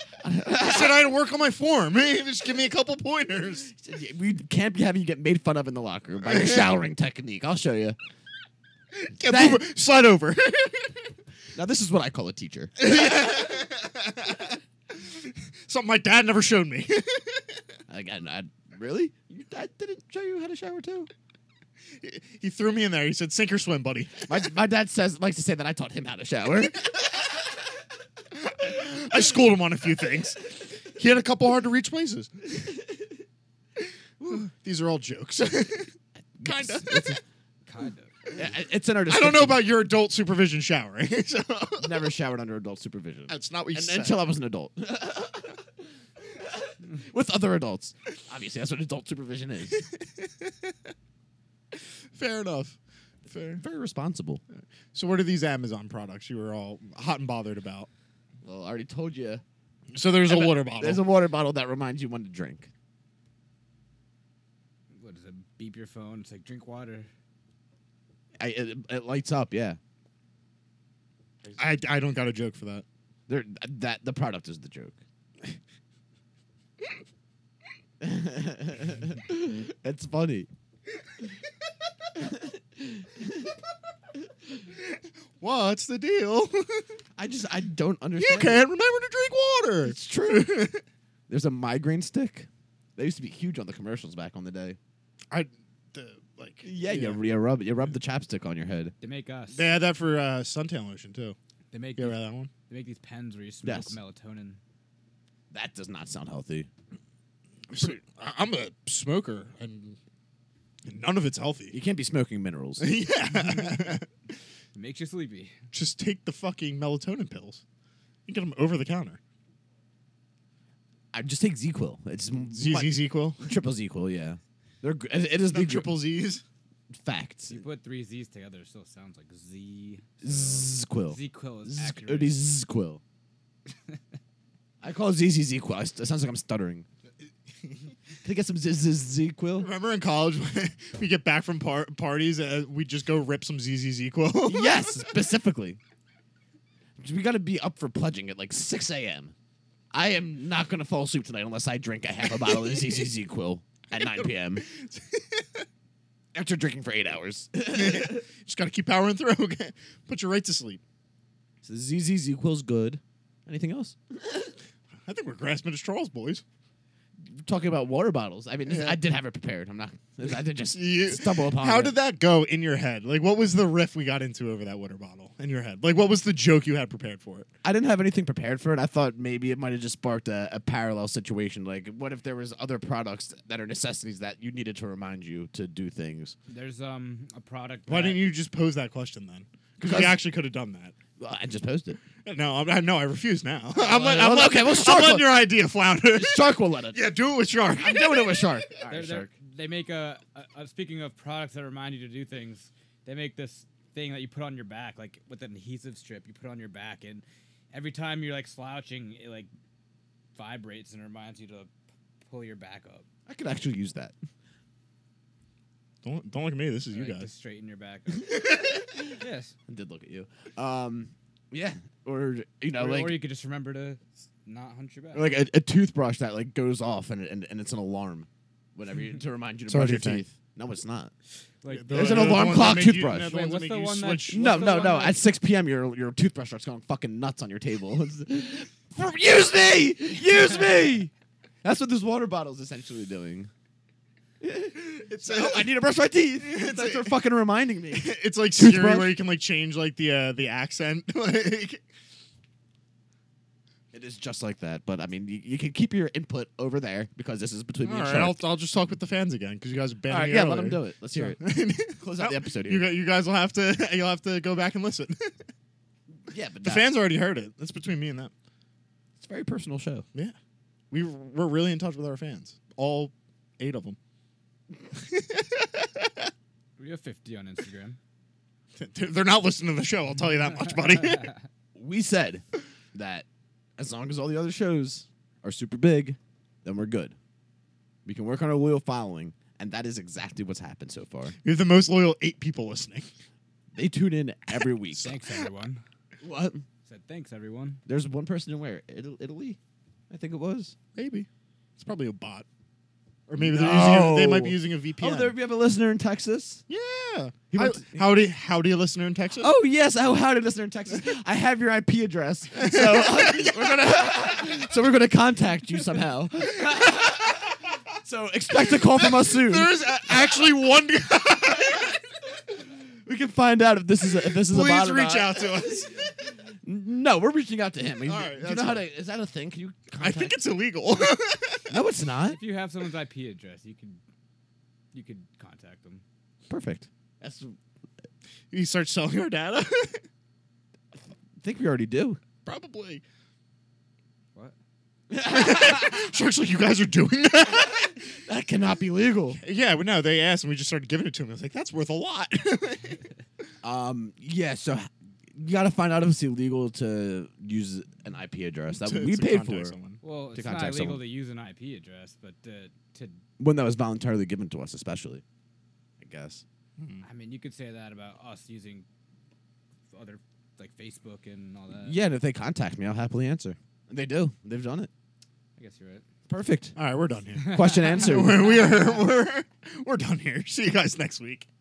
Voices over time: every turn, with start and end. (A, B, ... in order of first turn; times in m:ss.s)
0:00.2-0:01.0 A
0:00.6-0:03.7 B
0:03.8-0:08.0 A
0:06.3-0:06.6 B
0:08.9-0:11.1 B
0:09.3-0:09.6 A
0:11.5-0:12.9 A
0:12.8-0:17.6 B
0:17.9-0:21.1 A
0:22.0-0:24.5 B
0:24.3-0:27.0 A
0:28.3-0:32.6 B
0:34.2-0:35.9 B
0:36.4-0:37.2 A
0:36.4-0:37.2 B
0:37.7-0:38.3 C
0:38.3-0:39.7 A
0:39.1-0:42.1 B
0:41.8-0:45.6 A
0:43.3-0:44.2 B
0:46.9-0:49.8 A
0:50.0-0:50.7 B
0:51.7-0:53.6 B
0:53.5-0:54.4 A
0:54.9-0:57.9 B
0:58.4-0:59.4 A
0:59.9-1:01.0 B
1:00.3-1:02.7 A
1:05.0-1:07.1 C
1:08.4-1:09.8 A
1:11.6-1:12.8 B
1:13.3-1:15.0 A
1:18.0-1:20.5 A
1:22.3-1:23.5 A
1:24.8-1:26.9 B
1:27.2-1:28.6 A
1:28.2-1:30.8 B
1:29.8-1:30.6 A
1:31.3-1:34.8 A
1:35.3-1:37.2 B
1:36.6-1:38.9 A
1:39.0-1:39.8 C
1:39.5-1:41.4 B
1:41.7-1:44.6 C
1:42.0-1:42.5 B
1:43.6-1:44.0 A
1:45.5-1:46.7 A
1:47.7-1:50.0 B
1:50.8-1:51.8 B
1:51.7-1:52.9 A
1:52.8-1:54.1 B
1:54.8-1:55.6 C
1:55.7-1:57.6 B
1:58.2-1:59.2 B
2:01.1-2:06.0 A
2:02.5-2:03.4 B
2:05.4-2:06.4 B
2:07.0-2:07.6 A
2:07.5-2:12.4 C
2:10.2-2:13.0 A
2:14.8-2:16.8 A
2:18.2-2:19.7 A
2:19.6-2:24.9 B
2:24.4-2:25.8 A
2:27.0-2:29.3 A
2:29.9-2:34.6 A
2:32.4-2:32.9 B
2:33.9-2:35.6 B
2:36.3-2:38.2 A
2:37.7-2:40.8 B
2:41.6-2:44.5 A
2:45.0-2:46.4 B
2:47.2-2:52.0 A
2:48.6-2:49.0 B
2:50.7-2:57.5 B
2:57.6-3:06.3 A
3:06.5-3:08.2 C
3:07.9-3:10.9 B
3:09.8-3:10.2 A
3:11.2-3:12.0 A
3:12.2-3:18.5 B
3:13.8-3:15.4 A
3:14.0-3:14.3 C
3:16.1-3:17.1 A
3:17.7-3:19.3 A
3:18.9-3:29.5 C
3:30.3-3:31.7 C
3:32.2-3:33.0 C
3:33.3-3:34.1 A
3:36.0-3:37.3 B
3:36.9-3:38.5 C
3:39.2-3:39.5 C
3:39.7-3:43.2 A
3:42.7-3:45.3 C
3:45.1-3:51.1 A
3:49.7-3:50.3 B
3:51.6-3:55.2 C
3:51.7-3:54.4 B
3:51.9-3:53.3 A
3:54.3-4:01.1 A
4:01.6-4:03.5 A
4:04.4-4:09.1 A
4:04.9-4:05.8 B
4:06.4-4:07.2 B
4:07.9-4:11.8 B
4:13.9-4:18.4 A
4:17.8-4:25.4 B
4:20.1-4:21.4 A
4:21.9-4:22.9 A
4:26.2-4:26.9 A
4:26.6-4:28.3 B
4:29.2-4:30.0 A
4:30.9-4:34.0 B
4:34.9-4:36.2 B
4:36.8-4:38.0 C
4:38.8-4:41.3 B
4:41.8-4:43.2 A
4:43.8-4:47.2 A
4:48.0-4:51.4 A
4:51.4-4:53.1 B
4:53.7-4:55.1 A
4:54.9-4:55.5 B
4:55.0-4:55.8 C
4:56.2-4:56.6 A
4:56.8-4:57.8 C
4:57.8-4:59.6 A
5:00.1-5:00.7 A
5:01.0-5:02.4 B
5:03.3-5:05.3 B
5:03.4-5:06.6 A
5:06.7-5:09.5 B
5:07.5-5:08.0 A
5:09.4-5:19.7 A
5:12.6-5:14.0 B
5:18.7-5:22.0 B
5:23.0-5:25.4 A
5:24.1-5:26.1 B
5:26.6-5:30.4 A
5:28.0-5:28.8 B
5:30.0-5:31.7 B
5:31.7-5:32.4 A
5:32.3-5:34.0 C
5:34.9-5:36.0 C
5:36.5-5:37.5 A
5:38.5-5:40.0 B
5:41.4-5:42.2 A
5:42.4-5:43.0 B
5:45.1-5:46.0 A
5:45.2-5:48.0 B
5:48.2-5:49.4 A
5:49.4-5:53.0 B
5:53.6-5:59.8 A
5:58.7-6:00.0 B
6:00.0-6:03.2 C
6:00.3-6:01.0 A
6:03.4-6:05.2 A
6:06.0-6:06.4 A
6:06.8-6:07.0 B
6:07.0-6:08.8 C
6:09.9-6:12.0 C
6:11.8-6:14.9 A
6:15.6-6:16.0 C
6:16.3-6:16.7 A
6:16.8-6:21.5 B
6:17.4-6:18.0 C
6:17.5-6:18.5 A